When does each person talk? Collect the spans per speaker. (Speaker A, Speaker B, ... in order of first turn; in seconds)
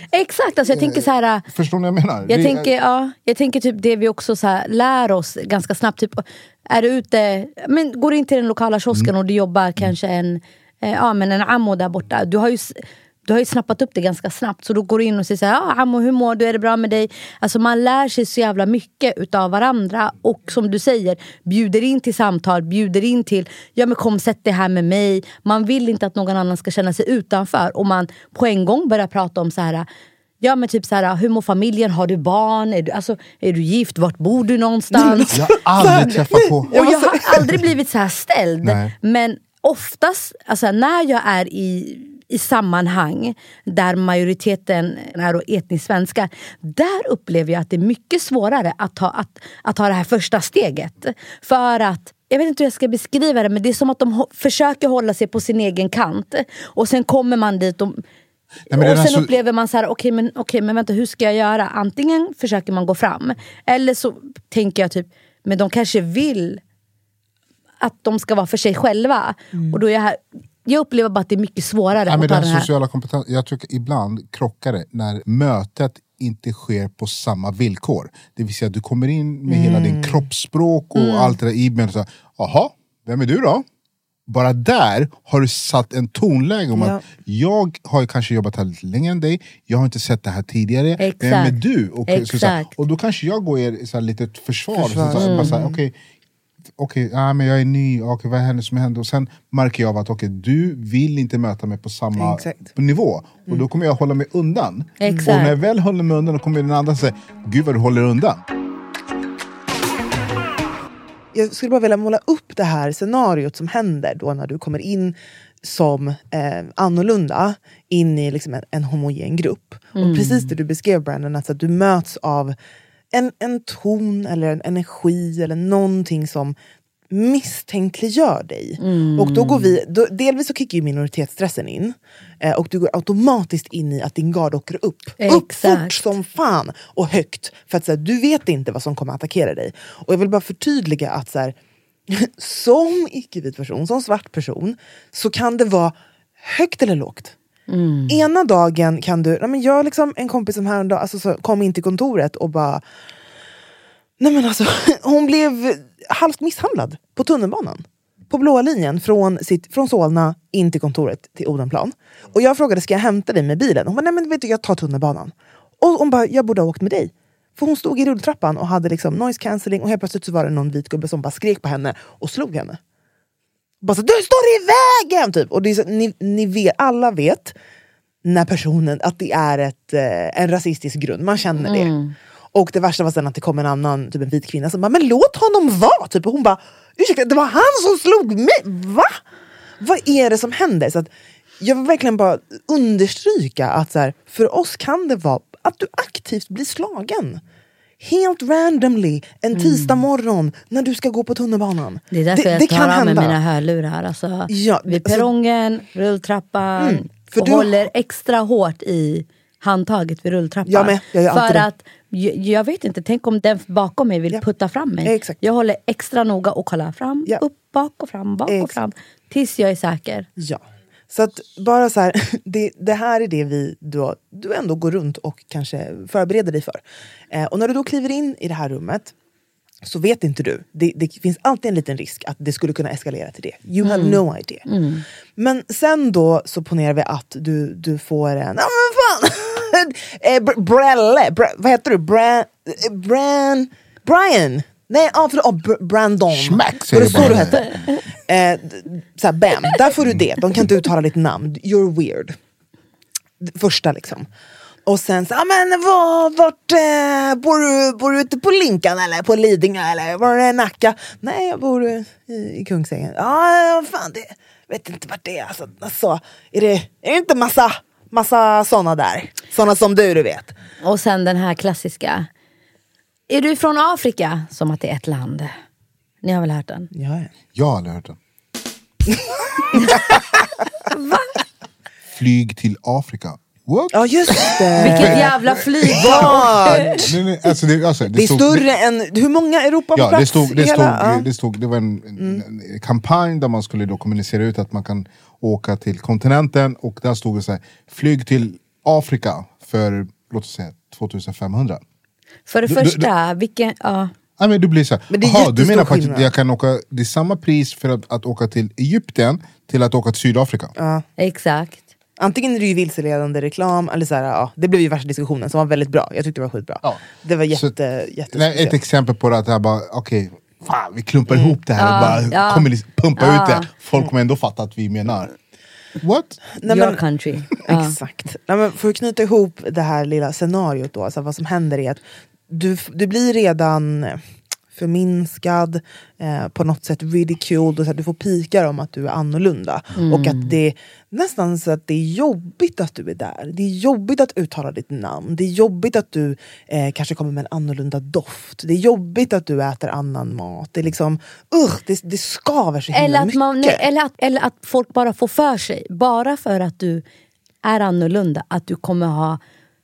Speaker A: 0.1-1.4, 2.3-29.9, 30.4-35.4, 36.7-58.0, 58.7-66.6, 67.8-72.7, 80.9-81.3, 91.0-92.7, 95.2-95.5, 105.0-105.5, 120.0-120.5, 128.8-129.7, 135.2-136.1, 147.7-148.2, 181.6-182.1, 199.5-200.0, 202.1-220.3, 233.8-235.0, 247.1-247.5, 270.8-272.3, 273.3-275.5, 276.2-276.9, 280.9-281.4, 284.8-287.1, 302.5-304.1, 311.2-311.8, 321.8-323.7, 326.6-327.9, 340.0-340.5, 352.9-357.0, 357.6-359.4
Speaker B: 0.7-2.7, 35.3-36.8, 38.6-38.9, 58.7-59.3, 72.0-83.6, 84.3-95.9, 96.8-108.4, 246.3-247.8, 250.1-250.7, 277.6-278.2, 282.1-288.7, 289.9-301.8, 302.7-303.1, 304.4-310.7, 316.8-317.7, 318.3-325.3, 326.0-326.4
Speaker C: 34.9-37.5, 69.5-69.8, 79.5-80.3, 86.7-87.0, 94.7-95.8, 102.2-102.7, 111.3-122.5, 123.1-126.5, 127.1-141.5, 142.1-147.3, 148.1-152.8, 154.2-172.8, 173.8-177.5, 178.2-181.9, 182.5-189.2, 189.8-191.1, 191.6-197.4, 198.0-203.4, 204.5-205.3, 206.8-207.9, 210.7-211.7, 215.0-215.4, 218.5-218.8, 220.4-229.1, 229.8-234.7, 235.4-247.7, 248.3-252.4, 253.4-254.3, 254.8-270.5, 276.9-277.3, 283.9-287.0, 288.1-291.3, 292.2-292.4, 305.1-306.3, 310.8-311.0, 312.2-318.8, 321.3-321.6, 326.6-327.0, 327.6-334.2, 334.7-353.8